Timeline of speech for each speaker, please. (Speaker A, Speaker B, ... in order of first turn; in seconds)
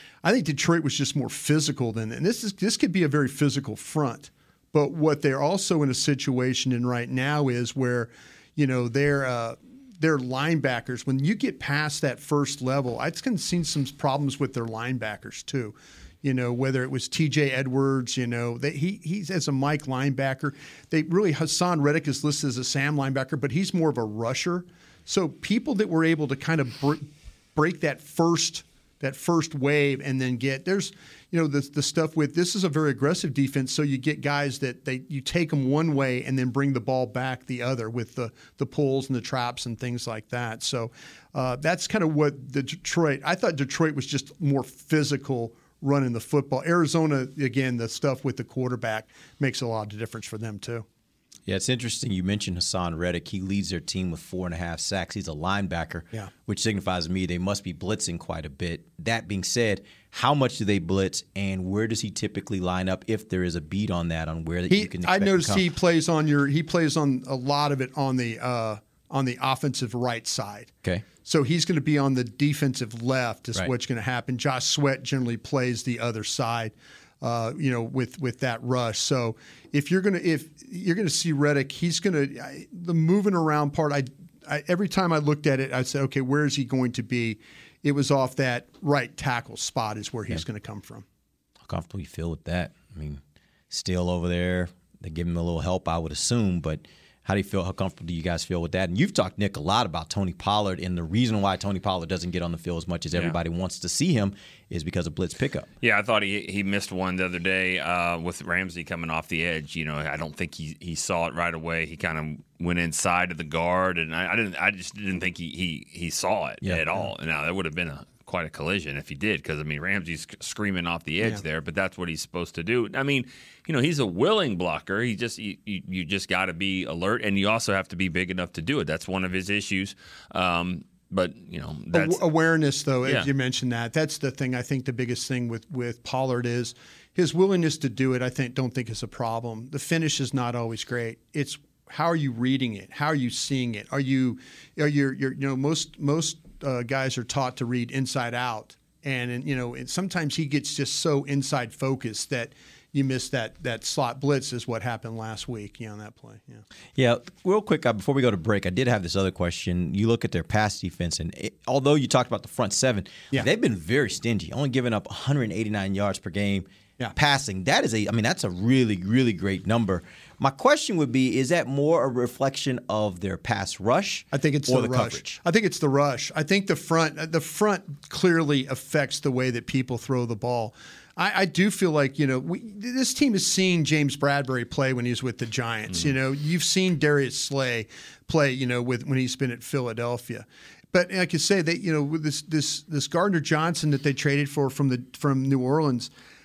Speaker A: 0.2-50.9, 64.7-91.0, 131.9-156.6, 174.3-196.1
Speaker B: 51.5-65.7, 91.6-105.7, 116.6-116.9, 157.0-175.4
Speaker C: 105.8-132.2